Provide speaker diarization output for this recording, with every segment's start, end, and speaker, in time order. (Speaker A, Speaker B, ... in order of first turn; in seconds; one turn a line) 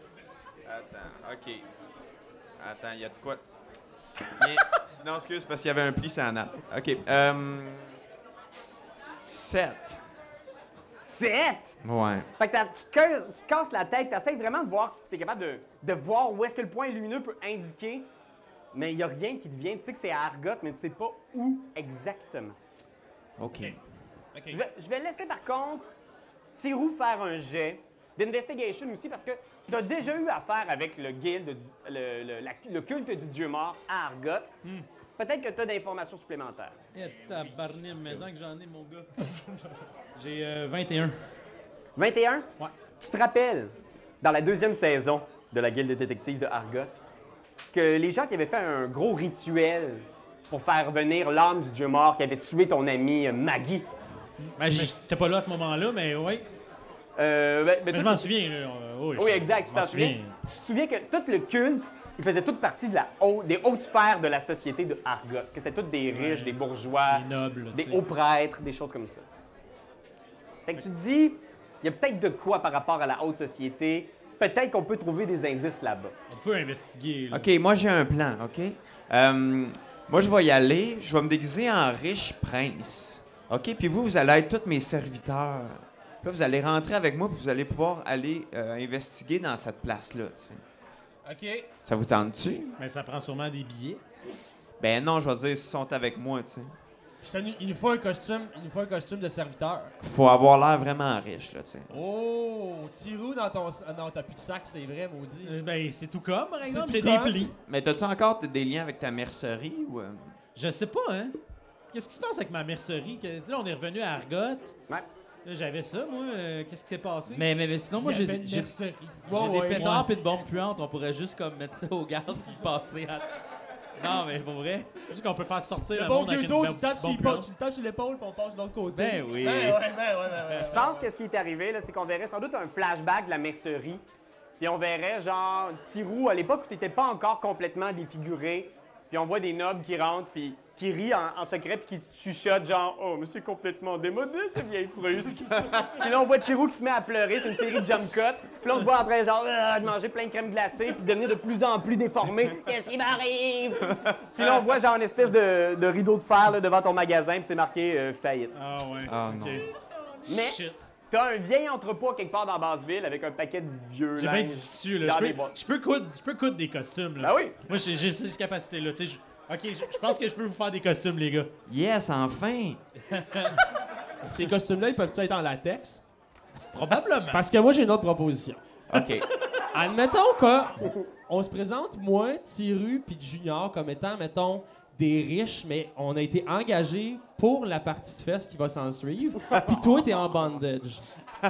Speaker A: 0.7-1.7
Speaker A: 2.6-3.4
Speaker A: 4.4-8.0
Speaker A: 9.2-10.0
Speaker B: 10.9-11.8
Speaker A: 11.8-12.3
Speaker B: 12.4-18.1
Speaker B: 18.7-22.6
Speaker A: 23.4-23.8
Speaker C: 23.5-23.8
Speaker C: 24.3-24.6
Speaker B: 24.5-25.9
Speaker B: 26.6-34.5
Speaker B: 35.2-36.8
Speaker D: 36.9-39.3
Speaker D: 40.1-41.2
Speaker B: 42.0-46.9
Speaker B: 47.7-53.9
Speaker D: 54.4-56.5
Speaker E: 54.6-54.9
Speaker B: 57.2-58.3
Speaker D: 57.9-60.4
Speaker B: 59.2-69.2
Speaker D: 66.1-68.0
Speaker B: 70.7-76.1
Speaker D: 76.3-77.5
Speaker A: 77.3-90.6
Speaker C: 91.2-91.7
Speaker A: 91.8-92.8
Speaker D: 92.8-94.0
Speaker A: 94.8-96.8
Speaker C: 97.2-100.0
Speaker A: 100.0-101.9
Speaker C: 101.9-105.6
Speaker D: 105.5-107.5
Speaker C: 106.6-107.5
Speaker A: 107.7-110.3
Speaker D: 110.5-111.4
Speaker D: 111.9-114.8
Speaker D: 115.5-117.5
Speaker E: 117.3-123.3
Speaker C: 118.0-120.1
Speaker E: 124.0-124.9
Speaker D: 125.1-127.5
Speaker C: 125.9-131.1
Speaker E: 128.9-130.4
Speaker B: 130.6-134.0
Speaker B: 134.6-158.6
Speaker D: 158.6-159.7
Speaker A: 159.0-159.7
Speaker D: 160.3-160.8
Speaker B: 160.3-165.6
Speaker D: 164.2-171.5
Speaker B: 167.2-167.6
Speaker A: 171.7-172.8
Speaker C: 173.1-173.6
Speaker C: 174.2-176.0
Speaker D: 176.7-177.5
Speaker C: 177.3-178.6
Speaker A: 178.9-179.3
Speaker C: 179.7-191.1